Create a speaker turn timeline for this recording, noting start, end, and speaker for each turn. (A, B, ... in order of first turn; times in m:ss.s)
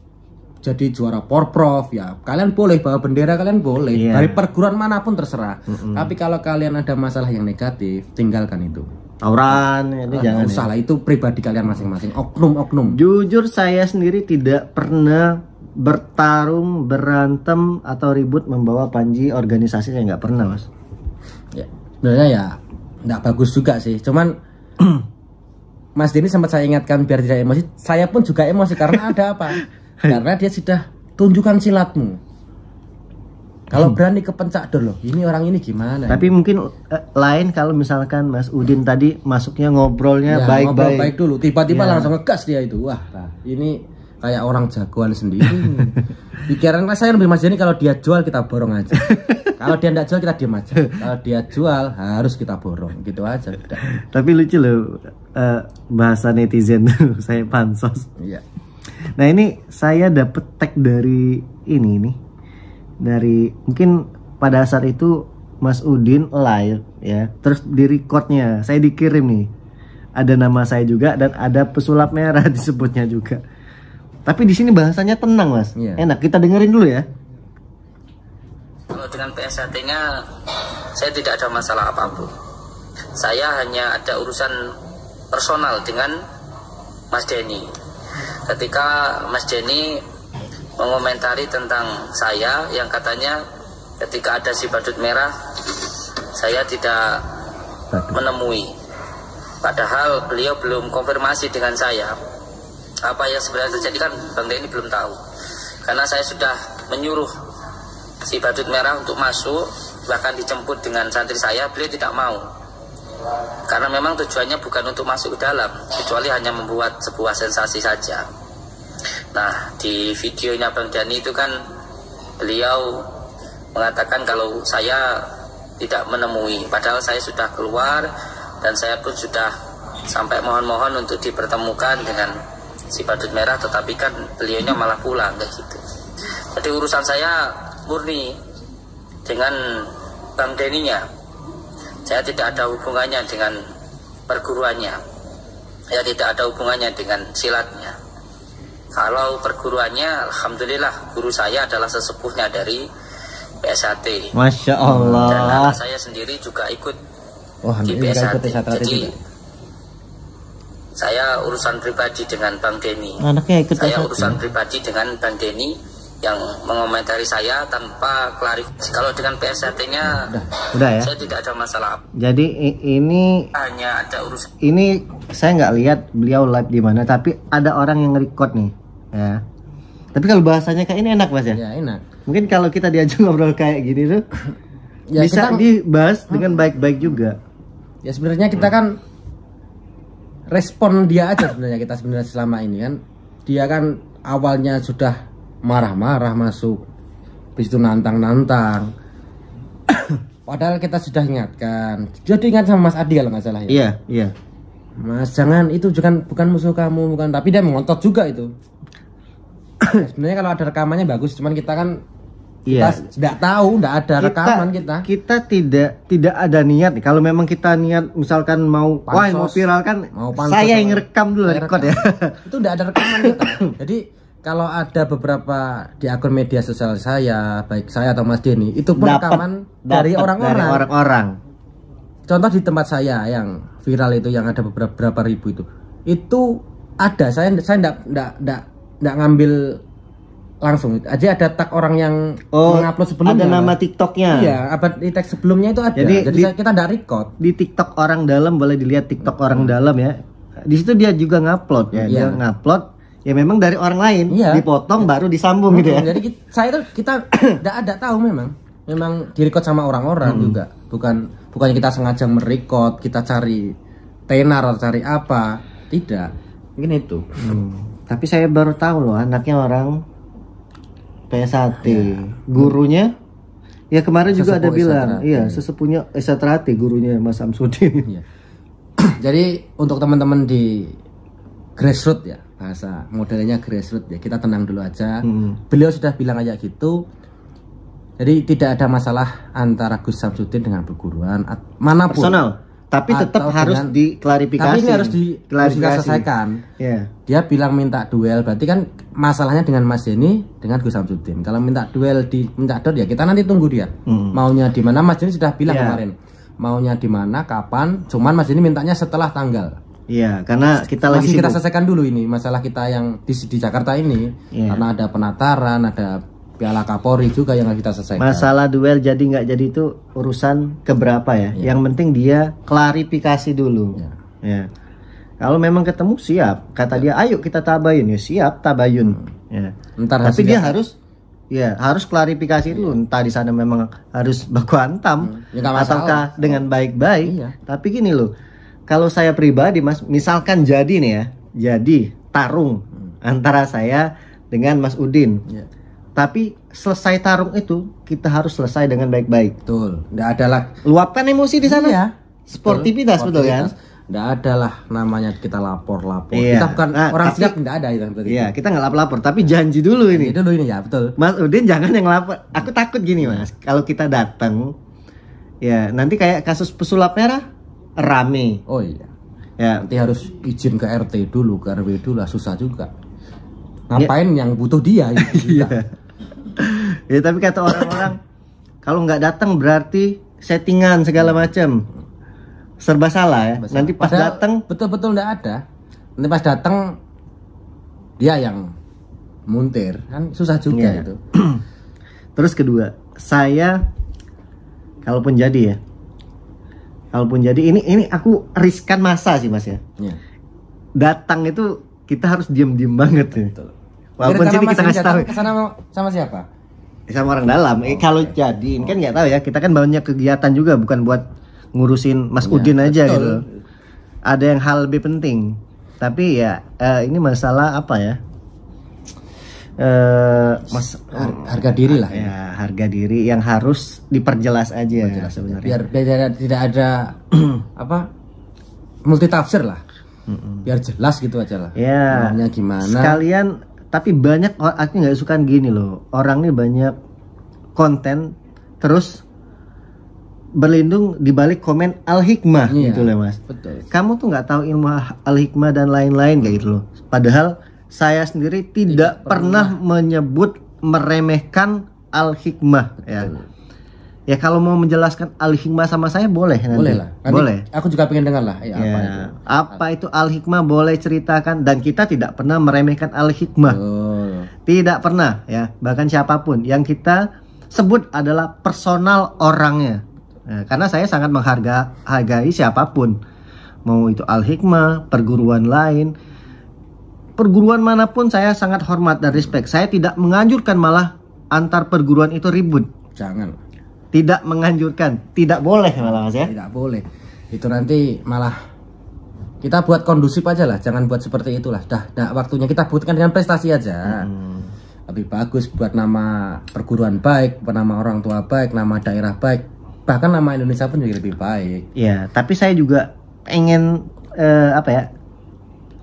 0:00.6-0:08.9 A
0:03.9-0:04.4 B
0:05.8-0:06.1 B
0:09.2-0:10.7 B
0:10.1-0:13.0 A
0:12.9-0:20.6 B
0:21.5-0:24.3 A
0:26.0-0:32.2 A
0:33.7-0:36.3 A
0:36.1-0:41.1 B
0:40.3-0:53.8 A
0:41.7-0:42.1 B
0:49.1-0:49.3 B
0:53.8-0:58.1 B
0:59.1-1:02.2 B
1:03.0-1:09.5 B
1:10.2-1:13.4 B
1:14.2-1:17.0 B
1:15.8-1:16.0 A
1:18.9-1:20.0 C
1:20.9-1:22.3 C
1:23.2-1:24.5 C
1:25.3-1:26.1 C
1:27.1-1:27.7 C
1:28.5-1:30.0 C
1:30.8-1:33.4 C
1:34.0-1:37.3 C
1:38.1-1:38.7 C
1:39.6-1:42.2 C
1:43.0-1:45.2 C
1:45.8-1:47.3 C
1:48.2-1:52.4 C
1:53.7-1:58.2 C
1:59.3-2:01.6 C
2:02.4-2:03.1 C
2:03.7-2:08.1 C
2:08.6-2:09.5 C
2:10.1-2:12.4 C
2:12.9-2:15.8 C
2:16.5-2:18.4 C
2:19.2-2:21.0 C
2:22.0-2:23.6 C
2:24.3-2:25.0 C
2:25.9-2:28.0 C
2:28.9-2:32.8 C
2:33.6-2:34.3 C
2:34.3-2:35.8 B
2:34.9-2:35.4 A
2:35.2-2:37.0 C
2:37.6-2:39.2 A
2:37.8-2:39.1 C
2:41.0-2:43.2 C
2:43.2-2:44.4 B
2:43.8-2:52.0 C
2:50.0-2:50.5 A
2:50.7-2:51.1 B
2:52.2-2:53.5 B
2:53.5-2:54.5 C
2:54.6-2:59.4 B
3:00.1-3:01.6 B
3:01.5-3:02.0 A
3:02.2-3:04.2 B
3:05.1-3:05.6 A
3:05.2-3:07.4 B
3:08.0-3:09.0 A
3:10.5-3:16.8 A
3:17.6-3:18.9 A
3:20.5-3:23.8 A
3:23.7-3:24.3 B
3:25.0-3:28.5 A
3:29.8-3:31.9 A
3:32.7-3:33.0 B
3:32.7-3:35.0 A
3:34.2-3:42.4 B
3:39.1-3:50.9 A
3:43.0-3:43.6 B
3:49.0-3:51.4 B
3:52.3-3:59.8 A
4:00.6-4:03.7 A
4:02.5-4:04.5 B
4:04.3-4:07.3 A
4:06.0-4:06.5 B
4:07.4-4:10.2 B
4:10.7-4:16.2 B
4:12.0-4:12.4 A
4:14.3-4:14.6 A
4:15.7-4:23.7 A
4:20.2-4:20.6 B
4:24.3-4:27.2 A
4:27.4-4:29.9 B
4:31.3-4:33.1 B
4:31.8-4:32.7 A
4:33.9-4:38.0 B
4:34.3-4:35.6 A
4:39.1-4:41.0 A
4:41.8-4:47.0 A
4:45.2-4:45.5 B
4:48.2-4:52.4 A
4:52.1-4:56.2 B
4:53.1-4:53.9 A
4:54.6-4:56.6 A
4:56.8-4:57.1 B
4:57.3-5:09.8 A
5:04.1-5:04.4 B
5:05.7-5:06.0 B
5:10.1-5:11.6 B
5:11.0-5:18.5 A
5:14.5-5:14.8 B
5:18.2-5:24.7 B
5:25.4-5:30.9 B
5:30.0-5:30.7 A
5:31.5-5:38.3 B
5:35.2-5:36.6 A
5:37.2-5:37.5 A
5:38.9-5:45.4 B
5:46.2-5:49.5 B
5:49.6-5:50.8 A
5:50.8-5:53.7 B
5:51.6-5:58.5 A
5:56.3-5:57.6 B
5:58.3-6:00.3 B
6:00.1-6:01.2 A
6:01.2-6:04.7 B
6:05.6-6:07.4 B
6:08.0-6:08.6 B
6:08.7-6:09.1 A
6:09.6-6:09.8 B
6:09.8-6:12.9 A
6:13.9-6:15.7 A
6:15.2-6:15.8 B
6:16.6-6:18.2 B
6:18.8-6:21.8 B
6:22.8-6:24.6 B
6:23.6-6:25.6 A
6:26.2-6:27.0 A
6:28.2-6:28.7 A
6:29.5-6:31.2 A
6:30.7-6:31.6 B
6:32.4-6:33.8 B
6:35.0-6:35.8 B
6:37.1-6:39.8 B
6:41.0-6:43.5 B
6:43.5-6:46.4 A
6:44.2-6:45.4 B
6:47.1-6:51.2 B
6:47.8-6:48.3 A
6:51.7-6:53.4 B
6:52.4-6:53.4 A
6:54.2-6:58.2 B
6:59.8-7:05.8 B
7:01.1-7:02.3 A
7:04.9-7:08.1 A
7:09.0-7:09.8 A
7:10.3-7:10.6 B
7:10.6-7:13.2 A
7:11.7-7:16.9 B
7:17.8-7:19.2 B
7:20.6-7:23.4 B
7:22.7-7:23.8 A
7:23.9-7:33.3 B
7:28.9-7:29.8 A
7:33.0-7:33.4 A
7:34.3-7:37.6 B
7:36.7-7:39.8 A
7:38.7-7:43.8 B
7:43.6-7:44.5 A
7:44.6-7:53.2 B
7:53.8-7:56.1 B
7:57.4-8:02.9 B
8:03.2-8:03.6 A
8:04.1-8:06.5 B
8:06.0-8:08.6 A
8:09.6-8:14.3 A
8:14.0-8:14.7 B
8:15.1-8:21.8 A
8:22.0-8:25.1 B